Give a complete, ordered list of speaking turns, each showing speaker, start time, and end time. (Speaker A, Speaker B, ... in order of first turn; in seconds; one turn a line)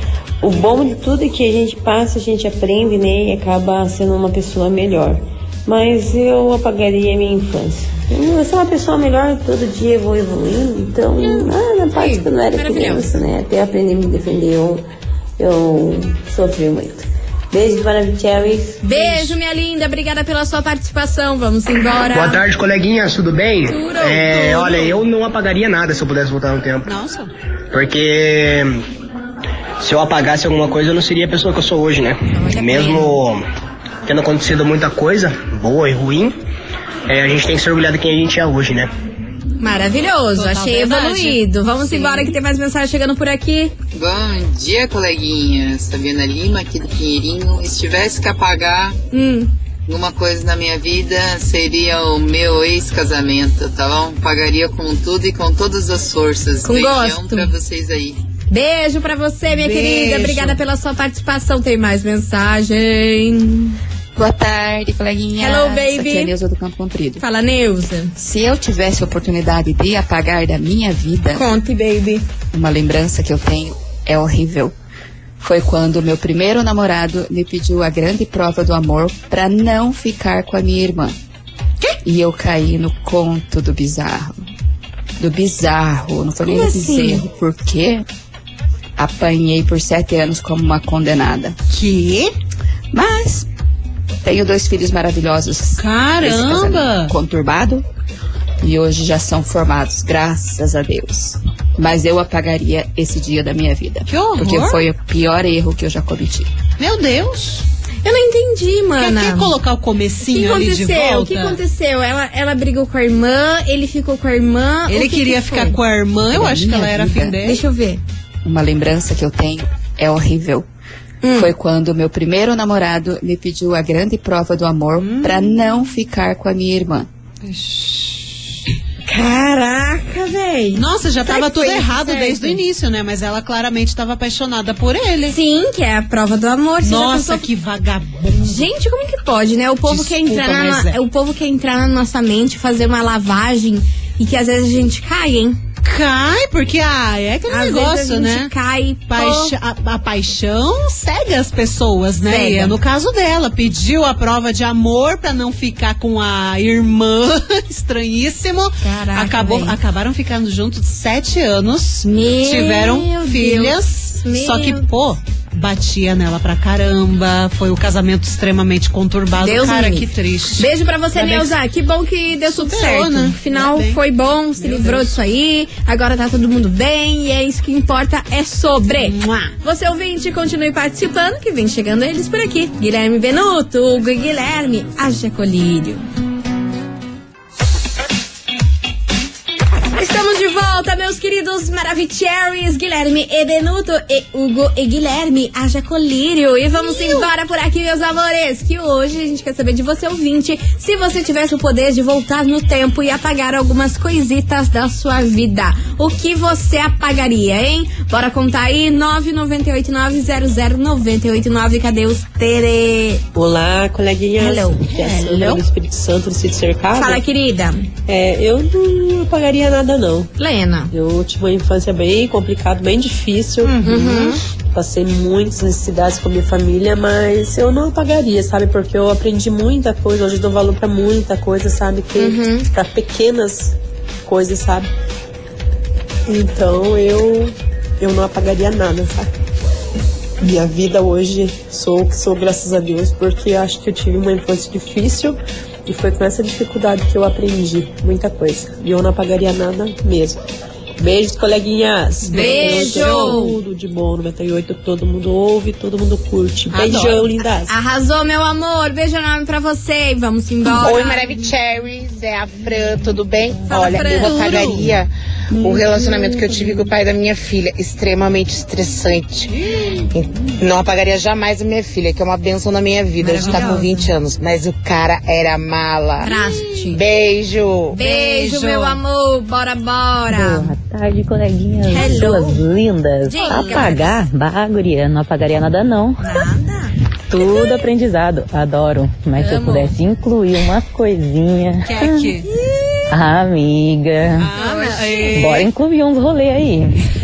Speaker A: 0.4-14.8
Speaker B: 11.2-13.1
Speaker A: 15.4-19.3
Speaker B: 18.8-22.4
Speaker C: 22.1-26.9
Speaker B: 23.7-25.0
Speaker D: 26.9-27.3
Speaker C: 27.7-28.8
Speaker C: 29.8-33.4
Speaker B: 32.3-33.2
Speaker C: 34.0-36.4
Speaker C: 37.1-38.9
Speaker B: 39.6-43.7
Speaker D: 40.4-42.3
Speaker E: 43.9-49.0
Speaker B: 49.1-49.5
Speaker E: 49.9-58.2
Speaker B: 56.6-57.5
Speaker B: 58.5-63.8
Speaker D: 59.5-60.6
Speaker F: 64.2-67.2
Speaker B: 65.4-66.3
Speaker B: 67.2-68.1
Speaker F: 68.2-71.5
Speaker B: 71.3-72.2
Speaker F: 72.5-74.8
Speaker F: 75.4-81.2
Speaker F: 82.0-84.4
Speaker F: 85.2-88.1
Speaker B: 86.5-87.2
Speaker F: 89.0-91.6
Speaker D: 91.7-92.3
Speaker F: 92.9-93.5
Speaker F: 94.2-97.8
Speaker D: 95.8-97.1
Speaker F: 98.6-106.5
Speaker D: 104.1-104.8
Speaker D: 106.8-107.6
Speaker B: 108.0-109.5
Speaker D: 109.0-111.6
Speaker B: 110.2-115.8
Speaker D: 114.9-117.6
Speaker F: 116.3-117.4
Speaker B: 117.4-118.0
Speaker F: 118.4-120.7
Speaker B: 121.2-121.5
Speaker F: 121.3-127.1
Speaker D: 125.0-125.5
Speaker D: 127.4-128.2
Speaker B: 129.0-132.6
Speaker D: 130.8-135.4
Speaker B: 135.3-137.4
Speaker D: 136.8-138.7
Speaker B: 138.4-145.6
Speaker D: 139.9-141.0
Speaker D: 145.8-148.5
Speaker B: 147.5-149.5
Speaker D: 149.1-171.6
Speaker B: 152.2-152.8
Speaker B: 158.8-159.8
Speaker B: 162.0-164.9
Speaker B: 169.4-186.0
Speaker D: 172.5-174.0
Speaker D: 174.6-175.2
Speaker D: 179.0-179.5
Speaker B: 189.9-213.2
Speaker D: 196.8-197.3
Speaker G: 213.3-217.2
Speaker B: 214.4-215.6
Speaker B: 216.9-217.9
Speaker G: 218.1-220.3
Speaker B: 220.4-220.9
Speaker G: 220.9-234.9
Speaker D: 223.6-224.4
Speaker B: 223.8-224.4
Speaker B: 232.2-232.7
Speaker G: 236.3-239.3
Speaker G: 240.4-250.4
Speaker G: 251.0-257.7
Speaker D: 252.3-253.4
Speaker B: 252.3-253.6
Speaker D: 256.7-257.2
Speaker B: 257.7-261.3
Speaker H: 260.7-269.5
Speaker B: 263.7-264.5
Speaker D: 264.2-264.9
Speaker D: 269.5-270.1
Speaker H: 270.1-276.3
Speaker B: 273.2-274.1
Speaker D: 273.4-273.7
Speaker B: 276.2-277.0
Speaker D: 276.3-276.8
Speaker H: 276.9-277.9
Speaker B: 277.9-280.7
Speaker D: 278.0-279.0
Speaker I: 280.3-286.5
Speaker B: 281.9-282.6
Speaker B: 283.2-284.2
Speaker D: 283.4-284.1
Speaker B: 286.2-287.9
Speaker I: 287.3-292.3
Speaker B: 289.4-290.0
Speaker D: 291.9-292.5
Speaker B: 292.5-293.0
Speaker I: 293.1-294.5
Speaker D: 294.4-295.7
Speaker B: 294.6-295.6
Speaker I: 295.4-297.1